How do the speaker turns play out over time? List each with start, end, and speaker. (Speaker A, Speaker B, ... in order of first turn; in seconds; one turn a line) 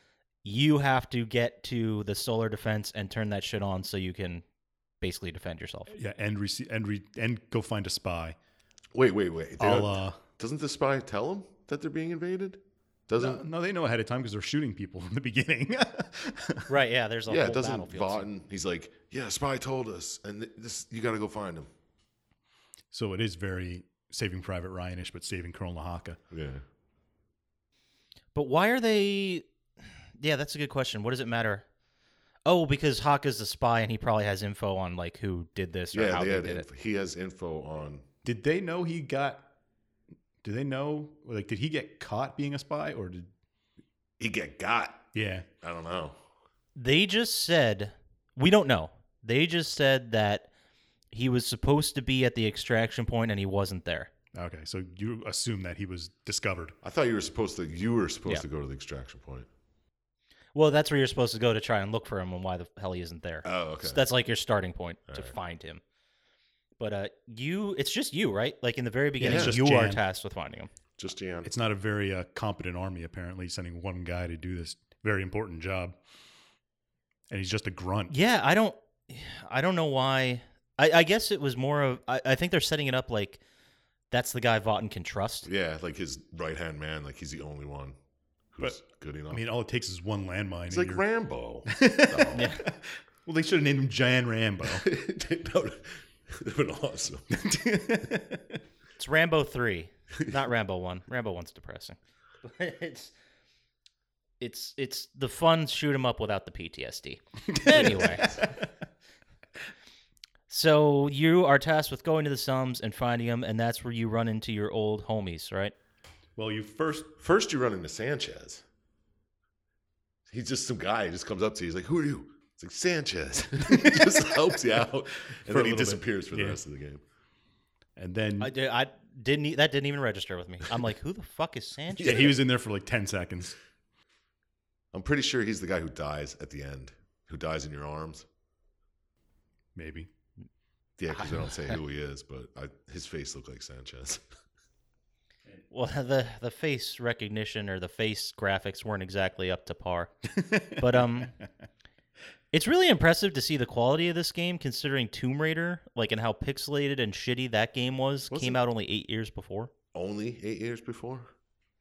Speaker A: 0.4-4.4
Speaker A: 5.0-5.9
Speaker B: 5.9-8.3
Speaker C: 8.9-13.4
Speaker B: 9.6-10.2
Speaker B: 13.2-16.7
Speaker A: 16.7-18.3
Speaker C: 17.3-21.7
Speaker B: 22.9-26.2
Speaker C: 26.3-26.6
Speaker A: 28.3-29.4
Speaker A: 30.2-31.6
Speaker A: 32.5-36.6
Speaker C: 35.9-38.0
Speaker B: 38.2-39.5
Speaker B: 40.4-43.3
Speaker C: 44.2-45.1
Speaker B: 45.1-45.5
Speaker C: 45.6-46.2
Speaker A: 46.7-50.5
Speaker A: 51.1-54.1
Speaker B: 54.3-56.8
Speaker C: 56.8-59.5
Speaker A: 60.5-65.8
Speaker C: 63.4-64.0
Speaker C: 65.1-65.3
Speaker A: 66.8-70.7
Speaker B: 69.2-70.0
Speaker C: 69.2-69.6
Speaker C: 71.0-71.5
Speaker B: 71.4-76.0
Speaker B: 77.3-78.1
Speaker A: 78.1-83.4
Speaker A: 84.1-85.5
Speaker C: 85.4-88.0
Speaker C: 88.5-89.4
Speaker B: 89.3-91.0
Speaker C: 90.7-92.5
Speaker B: 91.7-94.8
Speaker A: 92.3-92.6
Speaker C: 94.7-97.3
Speaker B: 97.3-98.6
Speaker A: 99.0-103.1
Speaker A: 104.4-108.5
Speaker B: 107.5-108.5
Speaker A: 110.5-115.7
Speaker B: 116.4-117.1
Speaker C: 117.2-118.6
Speaker C: 120.3-127.0
Speaker B: 123.7-124.1
Speaker B: 125.5-126.6
Speaker B: 128.0-128.5
Speaker A: 128.4-132.4
Speaker C: 132.0-132.3
Speaker B: 132.0-133.6
Speaker C: 134.9-138.2
Speaker B: 139.8-140.1
Speaker C: 141.0-144.2
Speaker A: 141.1-141.8
Speaker A: 145.7-151.3
Speaker B: 150.3-151.4
Speaker A: 152.5-159.7
Speaker C: 158.3-158.6
Speaker C: 159.9-161.3